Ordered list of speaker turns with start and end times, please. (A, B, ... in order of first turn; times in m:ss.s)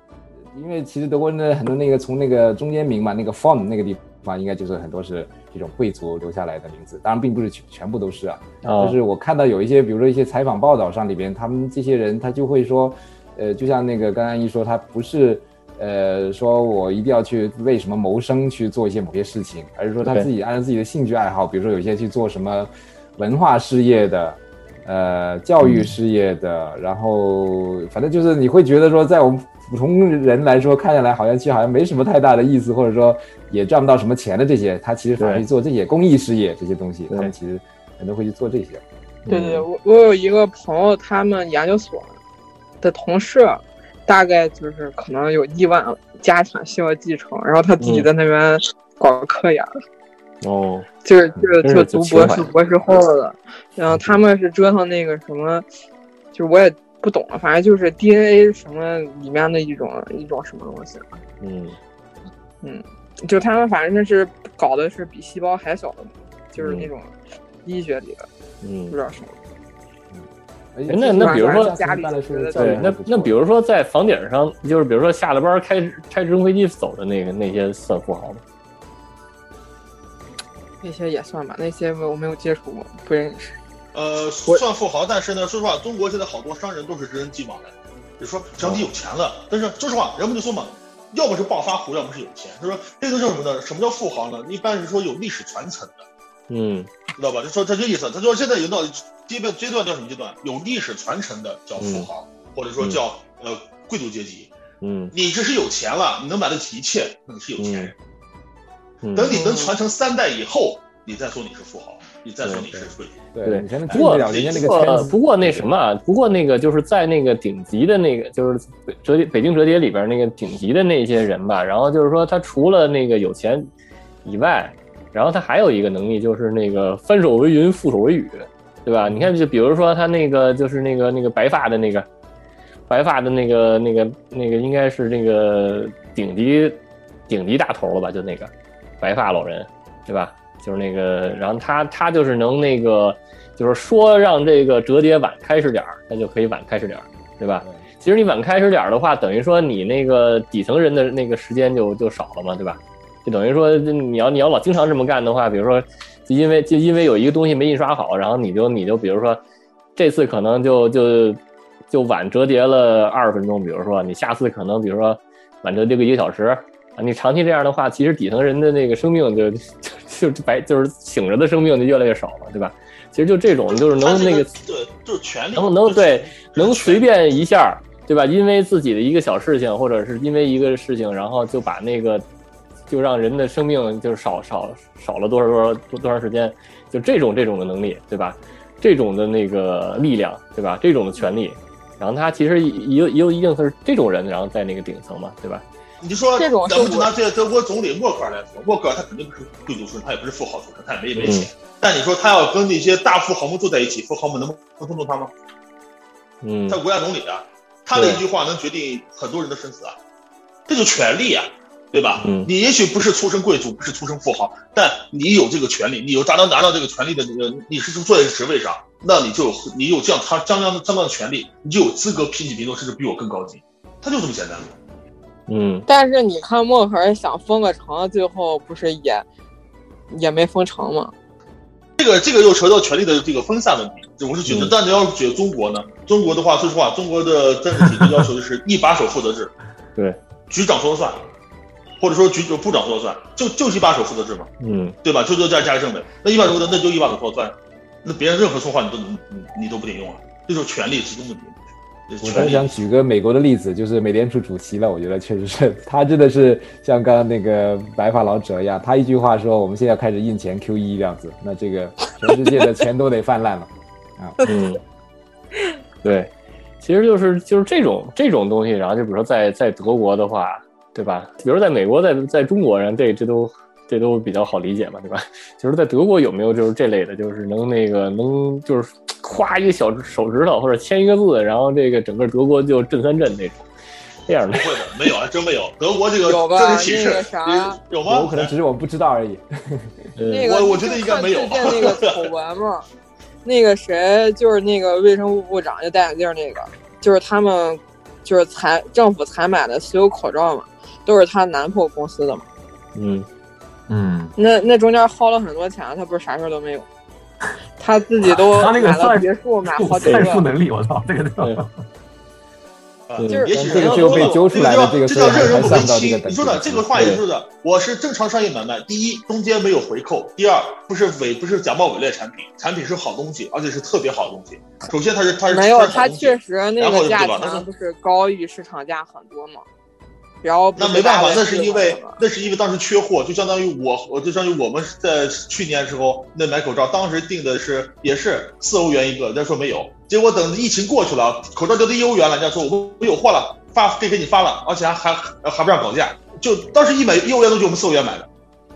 0:00.5-0:38.8 A
0:08.6-0:09.0 B
0:20.0-0:20.3 B
0:35.2-0:35.5 B
0:39.2-0:39.7 B
0:39.3-0:42.2 C
0:42.8-0:49.7 C
0:47.8-0:48.1 B
0:50.4-0:52.5 B
0:51.0-0:55.7 C
0:53.9-0:54.2 B
0:56.3-1:01.2 C
1:01.4-1:01.8 B
1:02.6-1:08.3 C
1:06.6-1:06.9 B
1:08.6-1:09.0 B
1:08.9-1:09.4 C
1:10.1-1:13.4 A
1:10.9-1:11.8 B
1:11.2-1:12.9 C
1:12.5-1:18.4 B
1:20.8-1:23.6 C
1:23.9-1:36.0 D
1:36.5-1:36.9 B
1:37.2-1:44.5 D
1:41.8-1:42.1 B
1:44.8-1:45.1 B
1:45.1-1:48.0 D
1:47.6-1:47.9 B
1:49.0-1:49.4 B
1:49.2-1:53.2 D
1:49.3-1:49.7 C
1:52.4-1:52.7 B
1:52.7-1:55.7 A
1:53.4-2:03.7 B
1:53.9-1:55.0 D
2:04.2-2:12.1 B
2:12.9-2:39.4 B
2:40.0-2:41.4 B
2:41.9-2:54.5 B
2:53.9-2:57.0 D
2:55.5-3:02.2 B
3:02.9-3:15.6 B
3:16.0-3:25.3 D
3:16.4-3:17.1 C
3:21.2-3:21.5 B
3:26.4-3:26.8 B
3:26.7-3:30.0 D
3:27.9-3:28.2 B
3:30.7-3:44.7 D
3:32.2-3:32.5 B
3:45.5-3:45.9 B
3:45.9-3:49.2 C
3:50.1-3:51.1 C
3:52.0-3:59.5 D
3:54.5-3:54.8 B
4:00.5-4:01.2 D
4:02.0-4:04.5 D
4:04.6-4:05.0 B
4:05.0-4:11.6 D
4:12.1-4:12.8 D
4:12.2-4:24.4 A
4:24.4-4:24.6 C
4:24.4-4:24.8 B
4:26.0-4:43.7 B
4:44.3-4:44.7 B
4:44.5-4:48.5 D
4:46.2-4:47.8 C
4:48.0-4:50.0 A
4:50.2-4:50.5 B
4:50.3-4:52.9 C
4:50.4-4:52.3 D
4:53.4-5:02.5 C
5:03.0-5:03.3 B
5:03.9-5:04.4 E
5:04.4-5:06.9 C
5:07.8-5:10.4 C
5:08.2-5:11.7 E
5:10.0-5:10.3 B
5:13.1-5:27.7 D
5:13.2-5:14.0 B
5:13.3-5:14.5 C
5:13.5-5:17.2 A
5:15.4-5:15.8 B
5:17.0-5:17.2 B
5:25.5-5:29.6 C
5:30.4-5:32.2 C
5:30.8-5:48.3 D